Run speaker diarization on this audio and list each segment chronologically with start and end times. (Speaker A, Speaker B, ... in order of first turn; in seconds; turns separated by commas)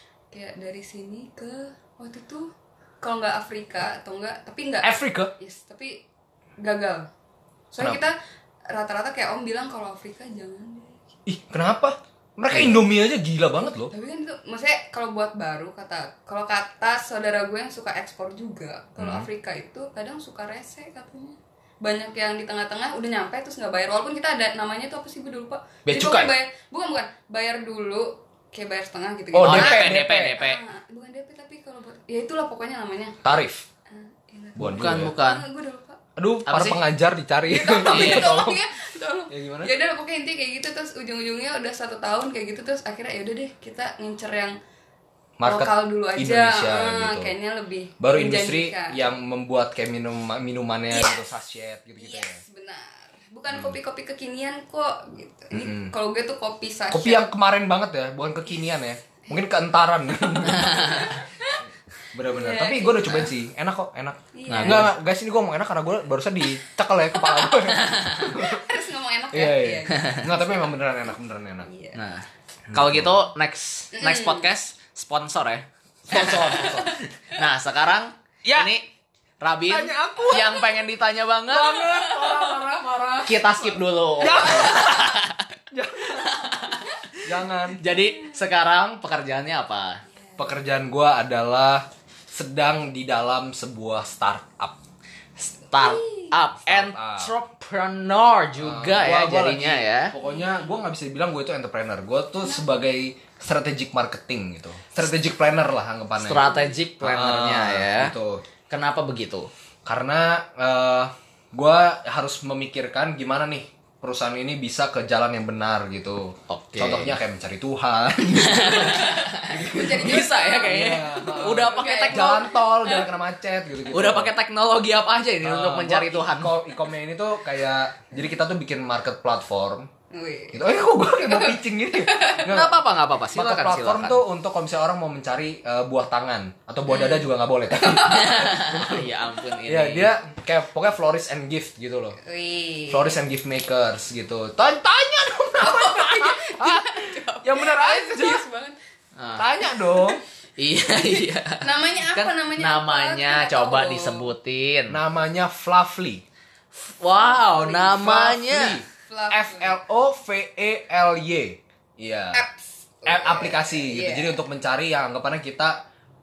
Speaker A: 0.3-6.0, Speaker B: 4.8-5.3, Speaker A: 6.6-7.1, Speaker A: 7.7-8.2, Speaker A: 8.7-11.0, Speaker B: 11.3-13.9, Speaker A: 13.8-33.2, Speaker B: 19.0-19.3, Speaker B: 25.9-26.3, Speaker B: 29.3-30.4, Speaker C: 29.4-30.6, Speaker B: 33.2-33.7, Speaker A: 33.9-36.0, Speaker B: 34.6-35.1, Speaker C: 34.6-35.4, Speaker B: 36.2-38.6, Speaker C: 36.5-36.8, Speaker A: 37.5-44.6, Speaker C: 37.9-38.3, Speaker B: 39.3-39.7, Speaker B: 45.4-47.3, Speaker A: 45.4-49.1, Speaker B: 48.0-52.4, Speaker A: 50.9-51.2, Speaker A: 52.0-57.3, Speaker B: 53.5-53.8, Speaker B: 55.5-55.9, Speaker B: 56.9-61.2, Speaker A: 60.3-61.6, Speaker C: 60.5-61.1, Speaker B: 62.1-68.6, Speaker A: 62.2-63.3, Speaker A: 64.3-64.9, Speaker C: 64.5-64.9, Speaker A: 67.2-67.7, Speaker C: 67.7-68.3, Speaker A: 68.3-70.9, Speaker B: 69.3-71.7, Speaker C: 69.9-70.2, Speaker A: 71.7-72.0, Speaker C: 71.9-78.9, Speaker B: 72.7-73.2, Speaker A: 73.9-74.5, Speaker B: 76.1-77.0, Speaker A: 76.1-77.4, Speaker B: 78.4-78.7, Speaker C: 79.4-81.8, Speaker B: 79.7-80.7, Speaker B: 81.5-87.8, Speaker A: 81.8-83.2, Speaker C: 83.2-85.5, Speaker A: 84.5-84.9, Speaker C: 86.2-87.0, Speaker C: 87.8-90.0, Speaker A: 87.9-88.3, Speaker A: 90.2-90.5, Speaker B: 90.4-94.8, Speaker C: 95.4-100.1, Speaker A: 95.7-96.3, Speaker B: 96.7-97.3, Speaker B: 98.6-106.5, Speaker A: 100.2-100.5, Speaker A: 102.5-102.8, Speaker C: 106.2-108.1, Speaker A: 106.5-106.7, Speaker B: 107.0-108.4, Speaker C: 108.7-109.5, Speaker B: 109.9-124.3, Speaker C: 116.5-117.2, Speaker C: 118.3-122.5, Speaker A: 118.8-123.1, Speaker C: 123.9-126.5, Speaker B: 125.4-129.9, Speaker A: 130.1-132.5, Speaker B: 130.5-132.8, Speaker C: 132.5-134.2, Speaker B: 133.3-139.1, Speaker A: 136.9-138.6, Speaker C: 138.1-140.1, Speaker B: 139.7-142.2, Speaker A: 142.2-143.2, Speaker B: 142.9-148.4, Speaker A: 145.6-148.8, Speaker C: 149.2-149.5, Speaker B: 149.4-150.2, Speaker A: 149.9-150.2, Speaker C: 150.6-155.0, Speaker A: 150.9-154.3, Speaker B: 154.9-156.2, Speaker C: 156.9-158.8, Speaker A: 157.1-158.1, Speaker B: 157.9-162.4, Speaker A: 158.9-159.8, Speaker A: 162.3-164.4, Speaker B: 163.1-165.8